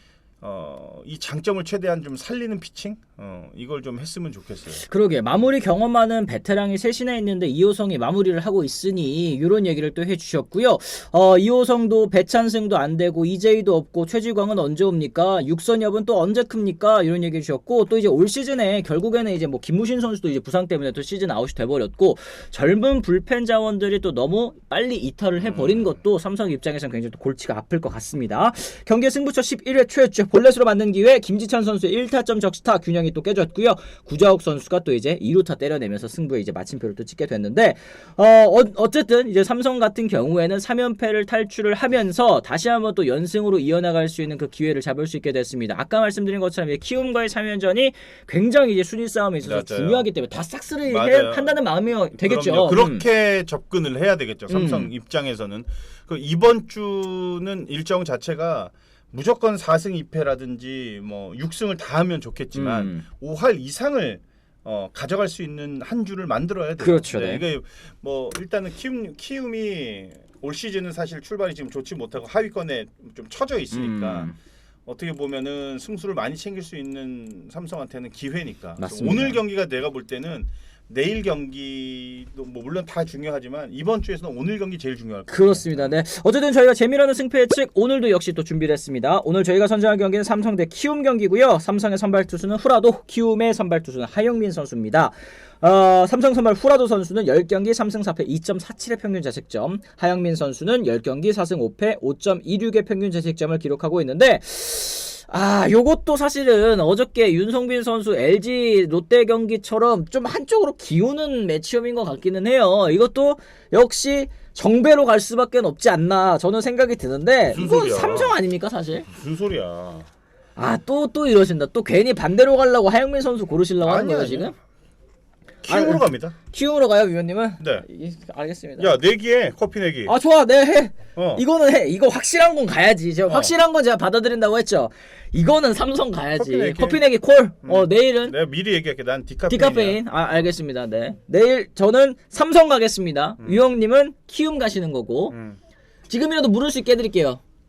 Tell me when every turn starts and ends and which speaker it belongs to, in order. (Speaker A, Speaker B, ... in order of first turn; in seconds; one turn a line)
Speaker A: 0.4-4.8
Speaker B: 4.8-53.0
Speaker A: 25.4-25.9
Speaker A: 49.4-50.1
Speaker A: 50.9-51.6
Speaker A: 52.2-86.0
Speaker B: 54.5-54.9
Speaker B: 62.5-63.0
Speaker B: 66.8-67.4
Speaker B: 73.7-74.3
Speaker B: 78.8-79.4
Speaker B: 85.3-119.1
Speaker A: 117.5-118.4
Speaker A: 119.1-120.1
Speaker B: 120.5-124.5
Speaker A: 123.8-124.5
Speaker A: 125.6-126.3
Speaker B: 125.7-128.9
Speaker A: 127.6-127.8
Speaker A: 128.8-130.1
Speaker B: 130.1-138.3
Speaker A: 131.2-131.4
Speaker A: 133.3-133.5
Speaker A: 136.3-137.1
Speaker A: 137.6-140.0
Speaker B: 139.5-145.3
Speaker A: 145.3-145.6
Speaker B: 146.1-147.4